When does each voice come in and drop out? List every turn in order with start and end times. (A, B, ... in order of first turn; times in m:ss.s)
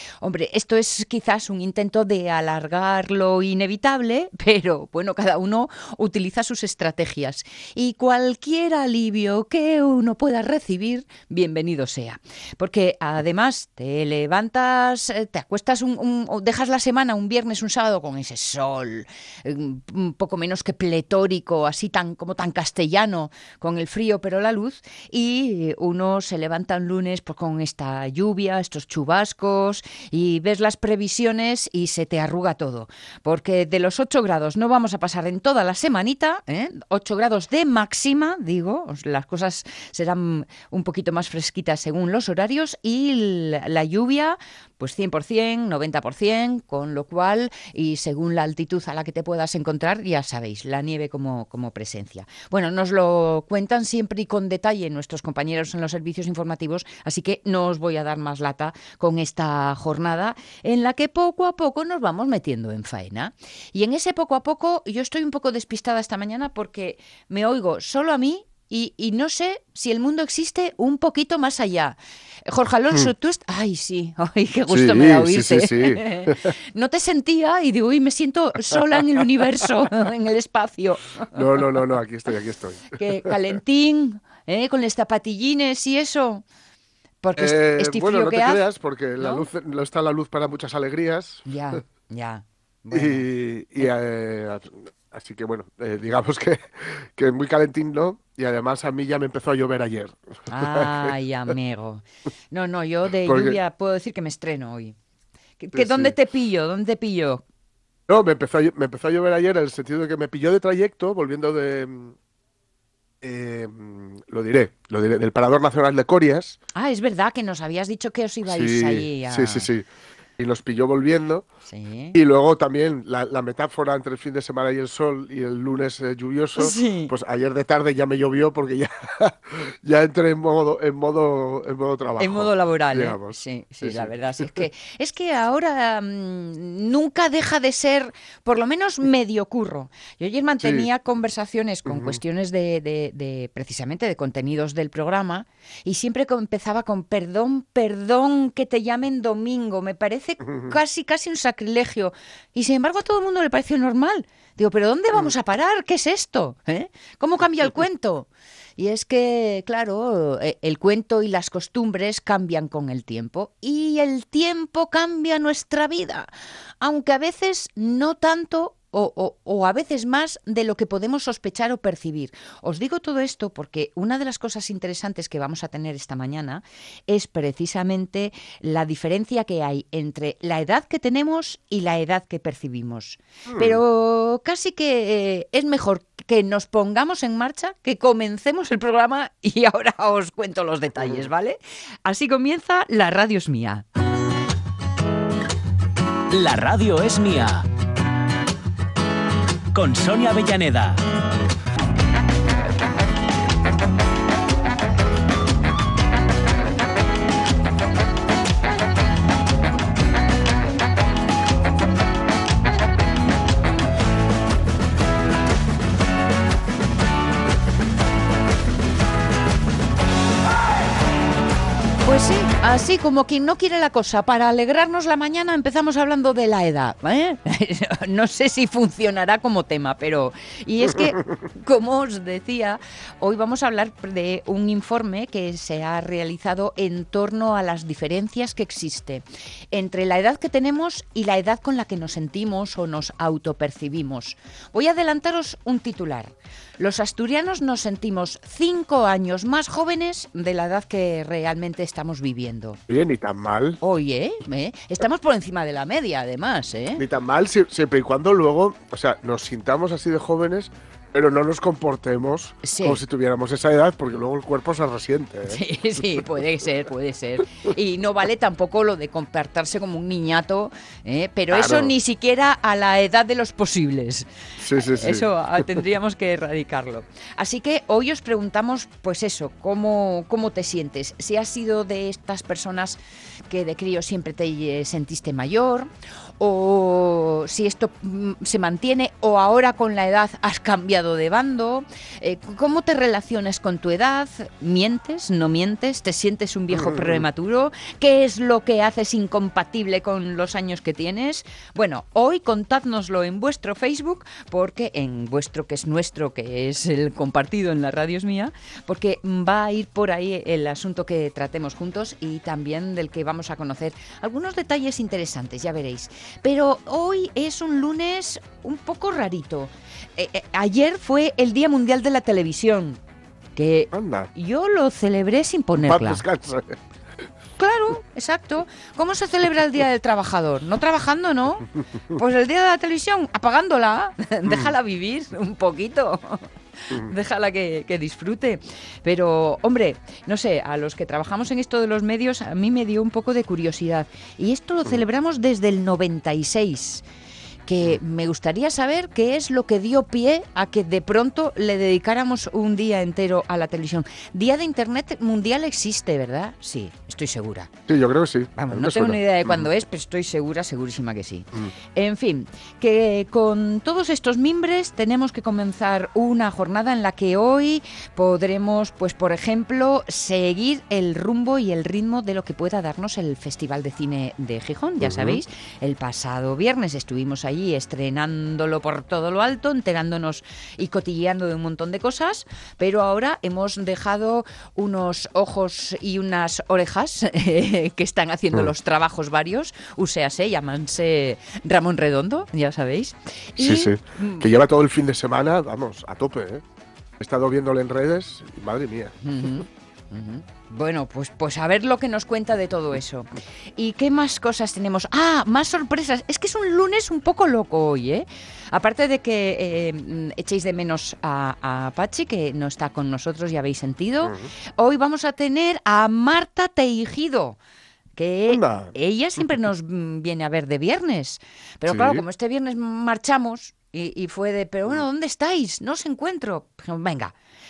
0:00.2-1:21.6 A
1:14.7-1:16.5 B
1:21.3-1:23.3 B
1:23.0-1:26.4 A
1:27.2-1:28.6 A
1:27.4-1:31.4 B
1:29.2-1:29.4 A
1:31.4-1:33.2 A
1:32.9-1:41.1 B
1:40.5-1:44.9 A
1:43.2-1:43.6 B
1:45.6-1:47.4 A
1:45.7-1:46.1 B
1:48.1-1:52.2 B
1:53.2-1:56.6 B
1:56.7-1:59.7 A
1:58.4-1:59.9 B
2:00.4-2:01.4 B
2:01.7-2:02.2 A
2:02.1-2:14.6 B
2:06.6-2:07.1 A
2:12.2-2:46.3 A
2:20.6-2:20.9 B
2:21.9-2:22.2 B
2:30.4-2:30.8 B
2:46.8-3:13.8 A
3:03.4-3:03.8 B
3:11.0-3:11.2 B
3:16.3-3:17.6 C
3:19.7-3:21.0 C
3:42.0-4:12.8 A
4:12.9-4:13.8 B
4:13.8-4:17.0 A
4:16.9-4:26.4 B
4:22.6-4:23.0 A
4:25.5-5:23.0 A
4:31.5-4:31.9 B
4:34.6-4:35.8 B
4:56.7-4:57.2 B
5:23.6-5:26.2 A
5:23.9-5:24.3 B
5:25.8-5:26.8 B
5:27.6-5:47.0 A
5:34.4-5:34.7 B
5:47.7-5:57.7 A
5:57.9-5:59.7 B
5:58.6-6:34.5 A
6:15.0-6:15.4 B
6:33.6-6:36.6 B
6:37.2-6:39.6 B
6:39.2-6:57.6 A
6:54.2-6:54.5 B
6:58.2-7:07.3 A
6:58.5-6:58.9 B
7:01.9-7:02.2 B